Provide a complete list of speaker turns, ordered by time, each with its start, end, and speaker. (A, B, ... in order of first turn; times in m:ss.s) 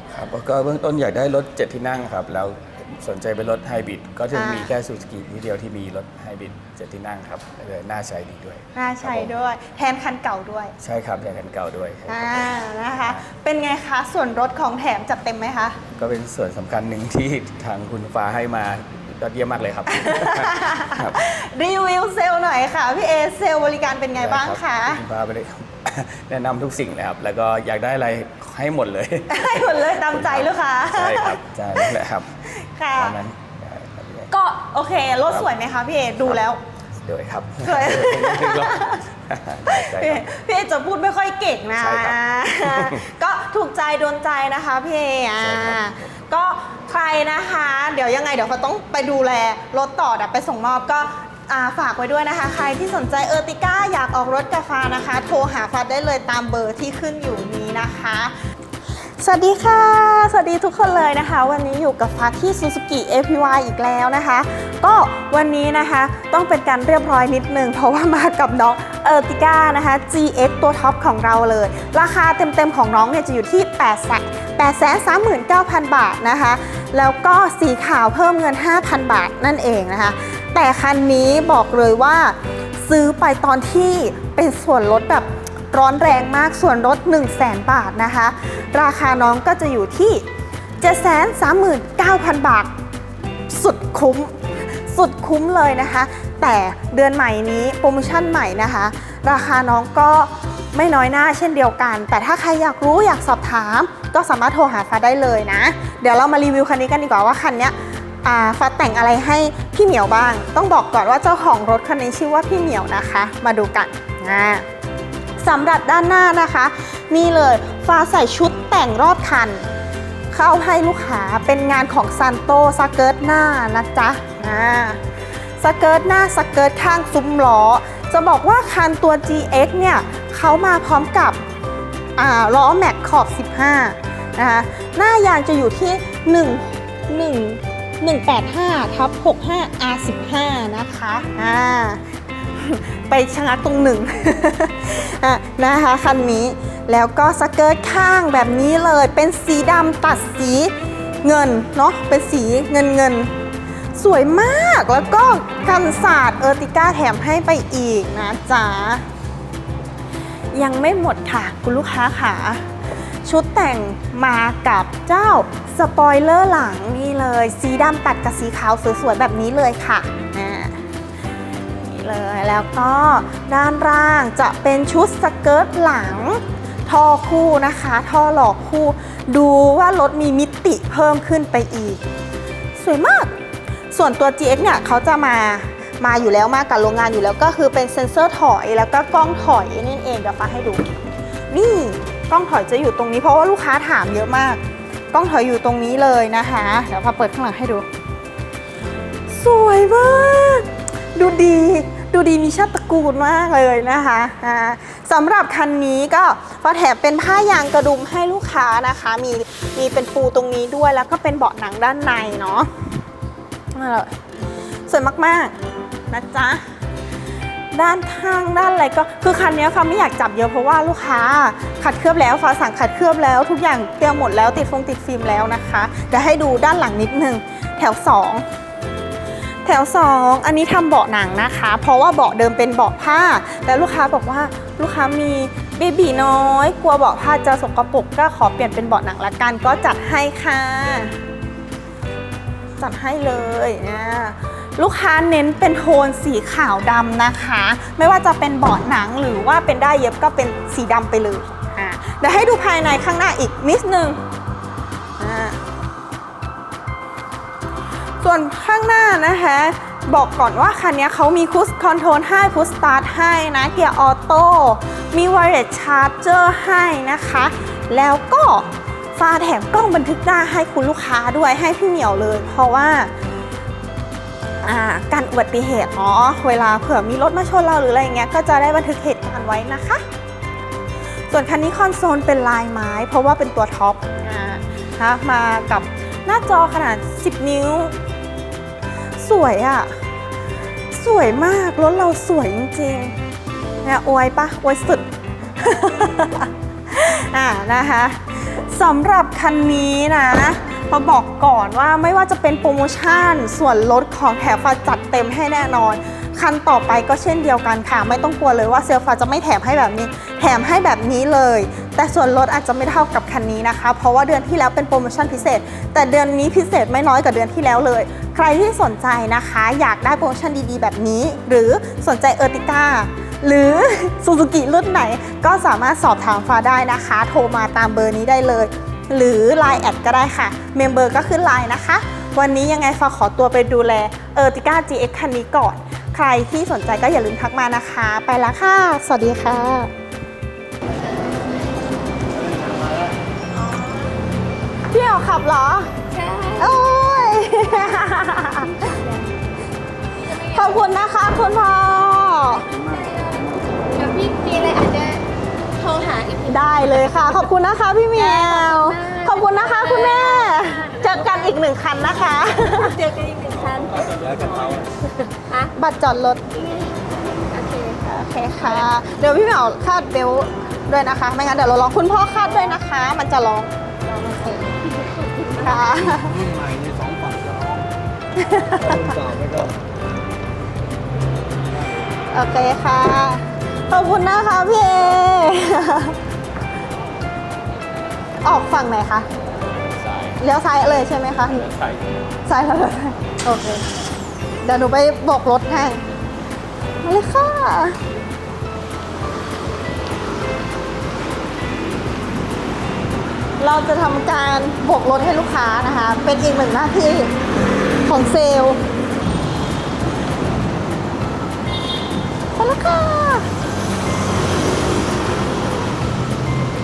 0:00.1-0:09.3 A
0:04.3-0:04.7 B
0:08.8-0:10.8 B
0:10.8-0:13.2 A
0:12.1-0:15.8 B
0:16.0-0:21.2 A
0:19.9-0:25.0 B
0:24.2-0:32.4 A
0:29.3-0:32.0 B
0:32.5-0:33.2 B
0:32.9-0:34.3 A
0:34.3-0:36.6 B
0:37.0-0:40.3 A
0:37.6-0:39.0 B
0:39.7-0:58.3 B
0:41.8-0:43.0 A
0:45.4-0:46.1 A
0:59.2-1:30.2 B
1:30.8-1:32.7 B
1:33.5-1:54.6 B
1:55.4-1:59.7 B
2:00.3-2:05.0 B
2:05.6-2:11.4 B
2:12.2-2:22.0 B
2:22.5-2:30.7 B
2:31.2-2:33.3 B
2:34.0-2:39.0 B
2:40.5-2:42.6 B
2:43.2-2:50.8 B
2:51.8-3:02.0 B
3:02.8-3:03.4 B
3:03.9-3:10.9 B
3:11.5-3:14.6 B
3:15.1-3:17.9 B
3:19.3-3:32.7 B
3:33.7-3:34.2 B
3:34.9-3:35.6 B
3:36.1-3:36.6 B
3:37.7-3:48.4 B
3:49.6-4:01.2 B
4:02.8-4:14.2 B
4:15.2-4:15.6 B
4:18.2-4:33.1 B
4:34.6-4:40.0 B
4:41.3-4:47.9 B
4:49.2-4:50.0 B
4:50.9-4:53.2 B
4:53.8-5:39.9 B
5:43.6-5:44.1 C
5:44.9-5:45.9 B
5:46.1-5:46.8 C
5:46.6-5:49.0 B
5:48.8-5:49.2 C
5:50.2-5:52.8 B
5:53.0-5:56.6 C
5:56.5-6:03.0 B
5:58.2-6:00.7 C
6:02.8-6:04.7 C
6:04.2-6:04.9 D
6:05.2-6:05.7 C
6:05.7-6:06.4 B
6:06.6-6:08.0 C
6:08.0-6:14.6 B
6:14.3-6:15.8 C
6:15.6-6:16.5 B
6:16.2-6:17.9 D
6:18.4-6:19.2 B
6:18.9-6:19.8 D
6:22.3-6:26.2 B
6:28.4-6:29.3 B
6:30.4-6:31.8 B
6:32.5-6:33.9 B
6:34.6-6:36.0 B
6:37.0-6:38.0 B
6:43.6-6:47.3 B
6:48.0-6:48.8 B
6:52.6-6:53.5 B